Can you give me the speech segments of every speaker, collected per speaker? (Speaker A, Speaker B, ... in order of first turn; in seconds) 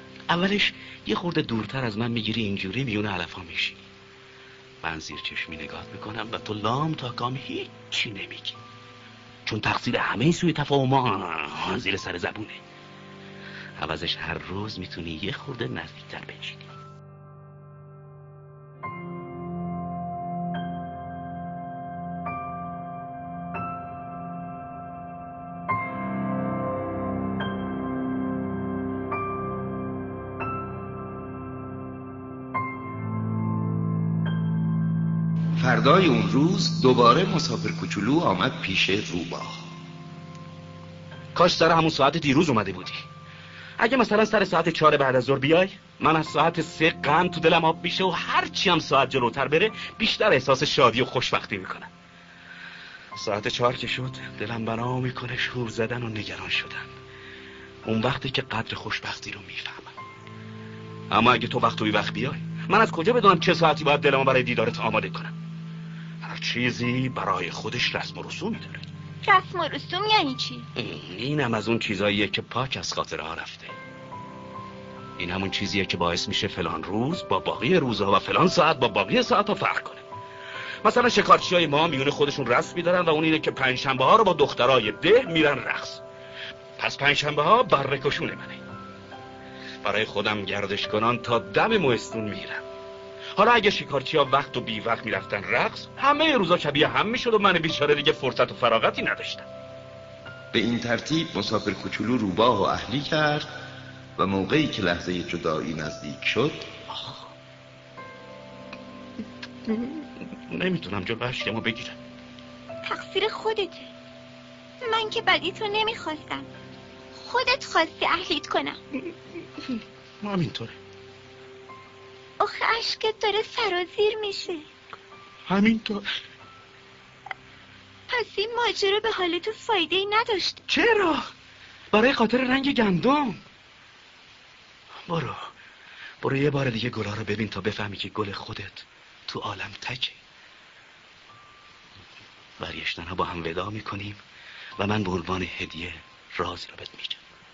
Speaker A: 0.3-3.8, 4.8-8.6, 9.4-12.6, 13.8-16.7, 41.3-43.0, 43.8-51.9, 53.1-56.9, 57.8-60.0, 61.1-65.3, 66.2-68.9, 70.8-73.7, 75.2-80.0, 80.8-86.0, 86.8-88.6, 89.8-92.6, 93.3-99.5, 106.9-107.2, 110.5-112.0, 119.6-120.8, 125.5-126.0, 130.7-131.3, 131.9-133.4, 135.1-135.4, 136.2-140.2, 142.6-144.2, 144.8-147.2
Speaker B: 35.6-39.6, 100.5-103.5, 104.2-106.7
Speaker C: 69.2-70.7, 112.8-113.9, 114.8-116.5, 117.2-118.8, 122.4-124.7, 128.1-130.6